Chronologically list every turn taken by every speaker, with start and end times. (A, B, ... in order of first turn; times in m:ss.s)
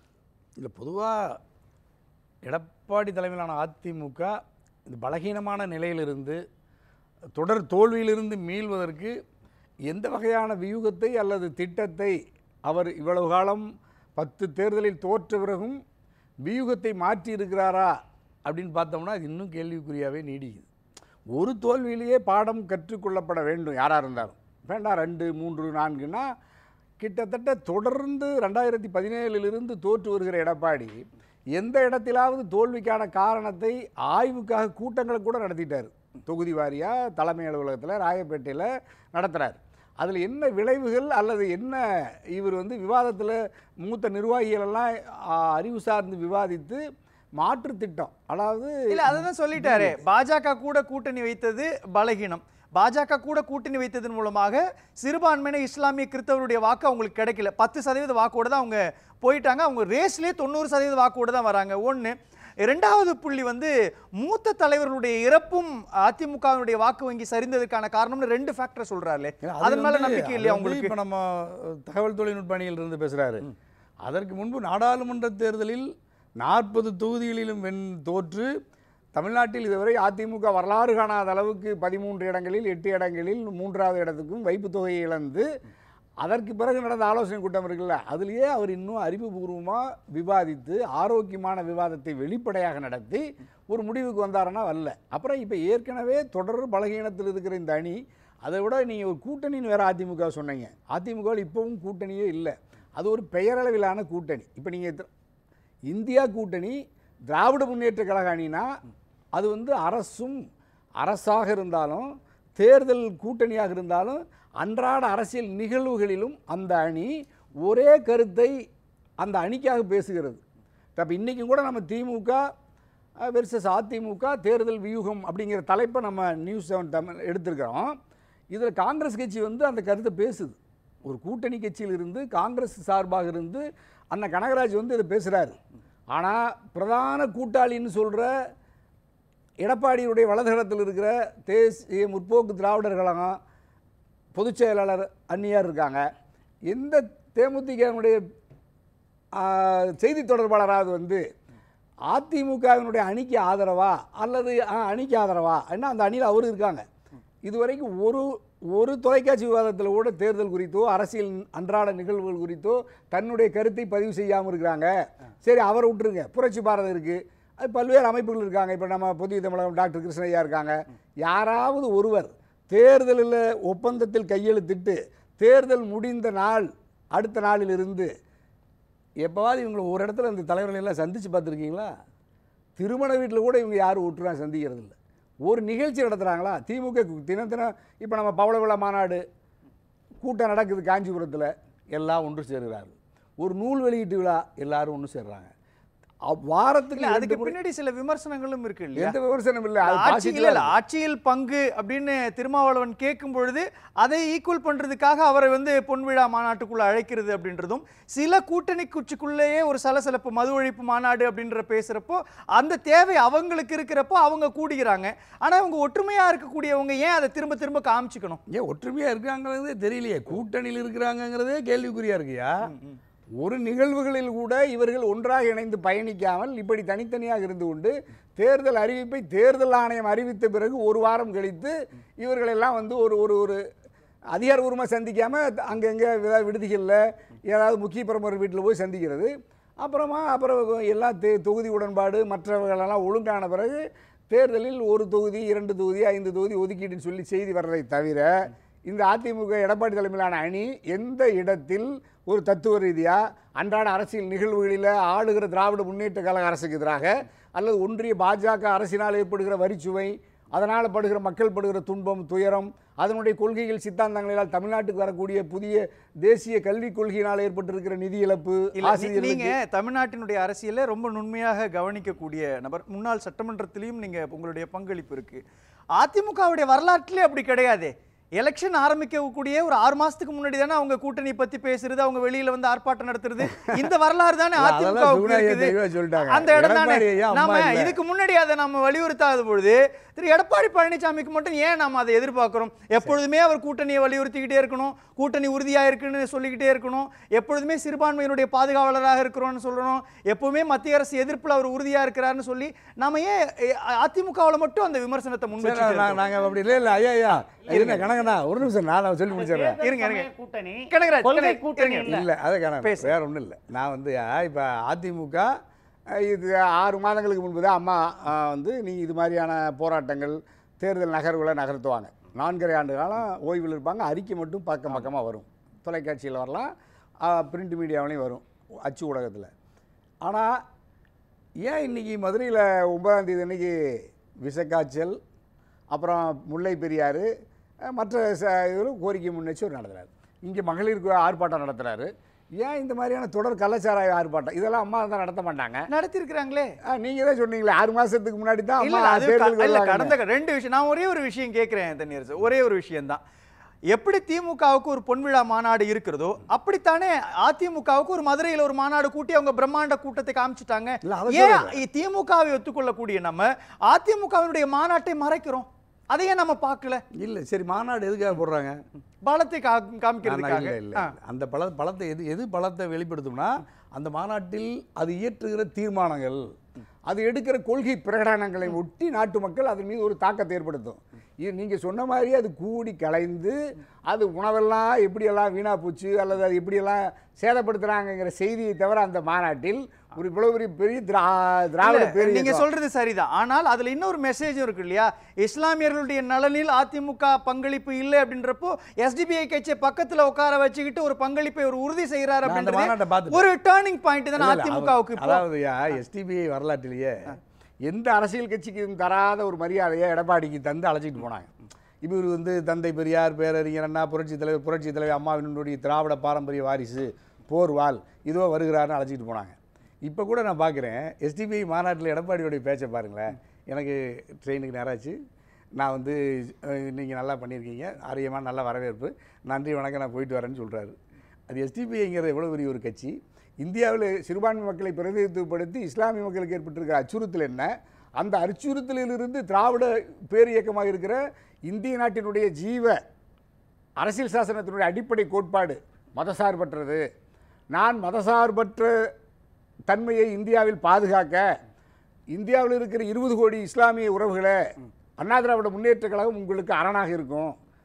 0:00.6-0:01.4 A
0:02.4-0:04.3 A
0:04.9-0:06.4 A
0:07.4-0:09.2 A
0:09.9-0:12.2 A
0:12.7-0:13.6 A
0:14.2-0:15.8 A
0:16.4-0:17.9 A
0:18.5-0:20.7 A
0:21.3-0:26.3 A
0:27.0-0:31.0 A
0:31.6-0:41.8 A
0:42.4-0:46.8 A
0:47.4-0:50.0 A
0:48.9-1:11.0 B
1:09.4-1:13.4 A
1:14.0-1:15.9 A
1:16.4-1:18.5 A
1:19.2-1:25.4 A
1:26.2-1:45.1 A
1:45.9-1:46.8 A
1:47.3-1:48.6 A
1:49.4-1:50.4 A
1:51.0-1:57.1 A
1:57.6-1:58.5 A
1:59.2-2:00.4 A
2:01.0-2:02.4 A
2:03.3-2:07.9 A
2:08.5-2:15.6 A
2:16.1-2:18.3 A
2:19.6-2:23.4 A
2:24.4-2:26.0 A
2:26.7-2:28.2 A
2:29.4-2:31.2 A
2:32.1-2:36.8 A
2:37.4-2:44.9 A
2:45.4-2:58.1 A
2:59.2-3:01.9 A
3:02.8-3:05.0 A
3:05.5-3:09.2 A
3:10.2-3:15.5 A
3:16.3-3:17.6 A
3:17.0-3:19.2 B
3:19.0-3:20.7 A
3:19.8-3:38.4 B
3:38.5-3:42.5 A
3:42.7-3:43.0 B
3:43.4-3:53.6 A
3:54.4-3:59.3 A
3:59.8-4:03.8 A
4:04.3-4:08.3 A
4:08.8-4:29.6 A
4:28.8-4:35.4 B
4:36.0-5:06.3 B
4:44.6-4:48.0 A
5:05.6-5:09.8 A
5:07.3-5:08.0 B
5:09.5-5:12.2 C
5:09.8-5:10.3 B
5:10.9-5:12.2 B
5:12.0-5:15.5 A
5:12.8-5:13.2 B
5:16.2-5:26.7 A
5:27.2-5:29.5 A
5:30.2-5:30.6 A
5:31.6-5:33.8 A
5:34.4-5:35.2 A
5:35.9-5:37.3 A
5:37.9-5:42.1 A
5:42.6-5:45.9 A
5:45.9-5:46.7 B
5:46.9-5:50.2 A
5:48.8-5:53.2 B
5:53.9-6:07.0 B
6:01.0-6:01.8 A
6:07.2-6:08.8 A
6:09.2-6:11.2 B
6:10.2-6:16.4 A
6:17.1-6:23.6 A
6:24.1-6:32.7 A
6:31.8-6:45.5 B
6:42.4-6:43.5 A
6:44.4-6:51.5 A
6:52.0-7:05.2 A
7:05.8-7:11.0 A
7:11.5-7:23.0 A
7:24.0-7:27.0 A
7:27.8-7:28.9 A
7:29.9-7:31.4 A
7:32.3-7:34.6 A
7:35.2-7:37.6 A